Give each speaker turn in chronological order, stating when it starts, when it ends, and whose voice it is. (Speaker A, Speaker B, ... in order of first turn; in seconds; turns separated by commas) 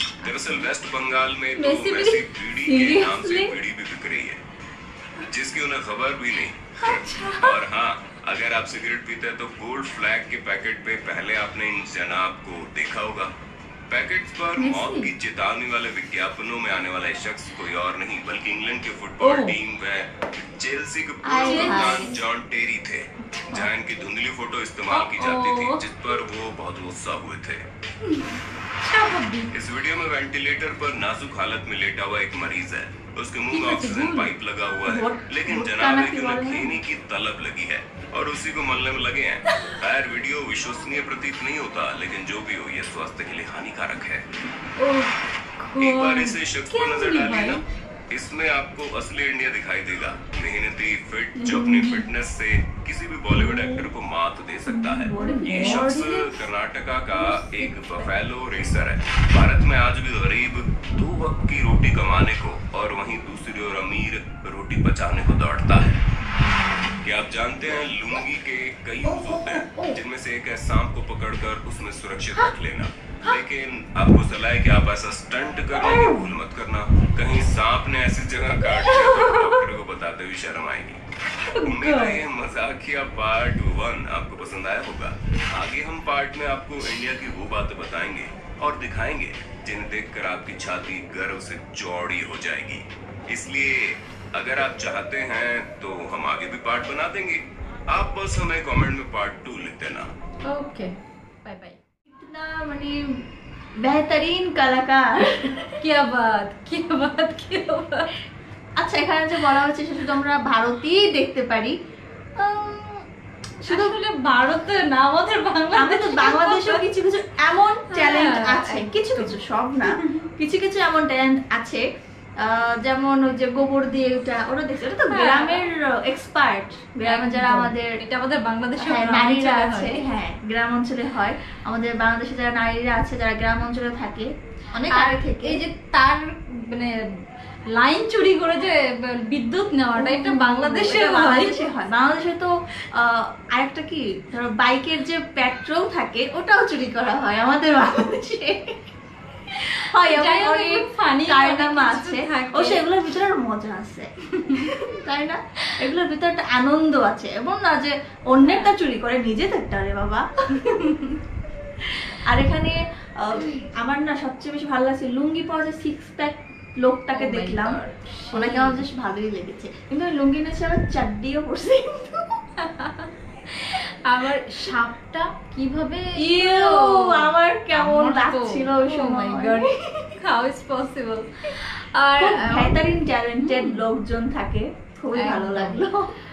Speaker A: 0.2-0.7, Speaker B: 0.2-4.4, Speaker A: 1.6-3.5, Speaker B: 5.2-13.3, Speaker A: 6.8-7.6, Speaker B: 13.9-27.6, Speaker A: 14.6-15.1, Speaker A: 19.2-19.6, Speaker C: 21.2-22.1, Speaker A: 21.3-22.2, Speaker A: 24.9-25.8, Speaker A: 28.1-29.5, Speaker B: 29.5-44.2, Speaker A: 33.5-34.3, Speaker C: 34.9-36.7, Speaker A: 44.8-47.6, Speaker B: 45.8-66.0, Speaker A: 51.4-52.1, Speaker A: 53.3-53.9, Speaker C: 54.7-55.9, Speaker A: 55.0-56.5, Speaker A: 57.1-58.1, Speaker A: 66.3-67.0, Speaker B: 67.0-81.0, Speaker A: 69.0-70.0, Speaker A: 75.8-76.3, Speaker A: 78.7-79.6, Speaker A: 81.4-82.2, Speaker B: 81.6-100.1, Speaker A: 100.5-100.9, Speaker A: 101.4-101.8, Speaker C: 102.1-103.2, Speaker C: 103.8-105.7, Speaker A: 105.8-108.1, Speaker C: 108.8-111.8, Speaker C: 112.4-113.0, Speaker A: 113.6-116.8, Speaker C: 113.6-114.0, Speaker C: 115.7-121.8, Speaker A: 117.9-120.1, Speaker C: 122.4-128.0, Speaker A: 125.1-125.6, Speaker A: 127.0-130.0, Speaker C: 128.8-135.6, Speaker A: 134.9-136.9, Speaker A: 137.7-141.7, Speaker C: 139.9-148.8, Speaker C: 149.7-160.8, Speaker A: 149.8-152.8, Speaker A: 154.4-154.7, Speaker A: 158.4-158.7, Speaker A: 160.6-161.1, Speaker C: 162.2-167.8, Speaker A: 167.1-168.8, Speaker C: 168.3-172.4, Speaker A: 172.6-173.1, Speaker A: 173.6-183.8, Speaker C: 176.2-180.2, Speaker C: 182.2-186.1, Speaker A: 185.1-185.8